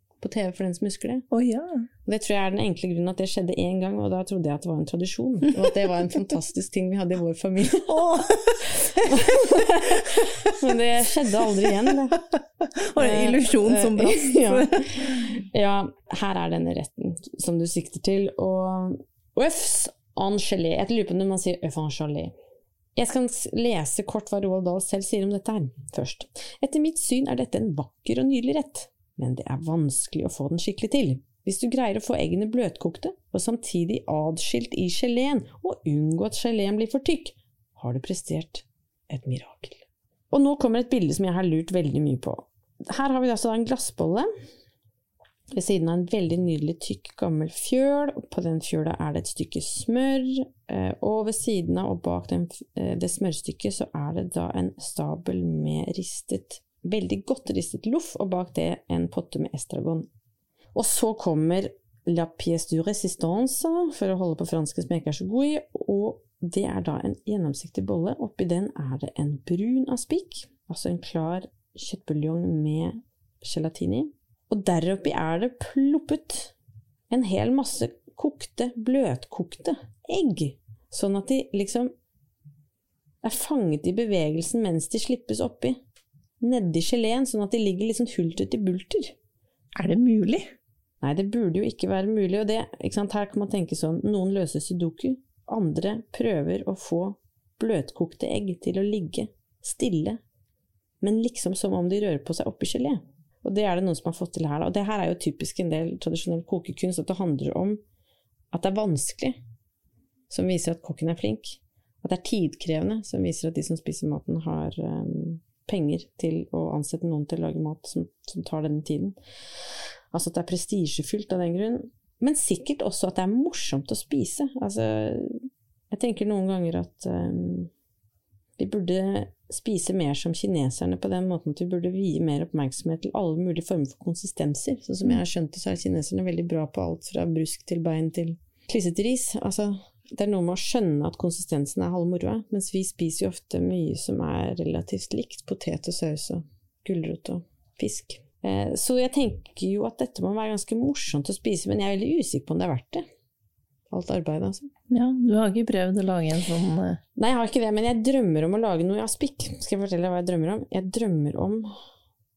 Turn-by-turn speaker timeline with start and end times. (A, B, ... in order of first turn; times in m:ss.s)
0:00.2-0:01.3 A
0:01.3-0:01.8 B
0:02.0-0:12.2 A
0:07.8-0:10.5 B
0:12.3-0:15.2 B
0:12.9-0:22.3 A
0:23.0-0:44.3 A
0:45.5-1:00.1 A
1:00.7-1:16.5 A
1:17.1-1:21.9 A
1:23.2-1:25.8 A
1:26.4-1:29.1 A
1:29.7-1:30.5 B
1:31.0-1:40.2 A
1:41.0-1:47.8 A
1:48.5-1:49.4 A
1:50.3-1:59.2 A
2:00.1-2:07.7 A
2:08.6-2:33.0 A
2:33.9-2:34.7 A
2:34.9-2:37.0 B
2:37.2-2:41.7 A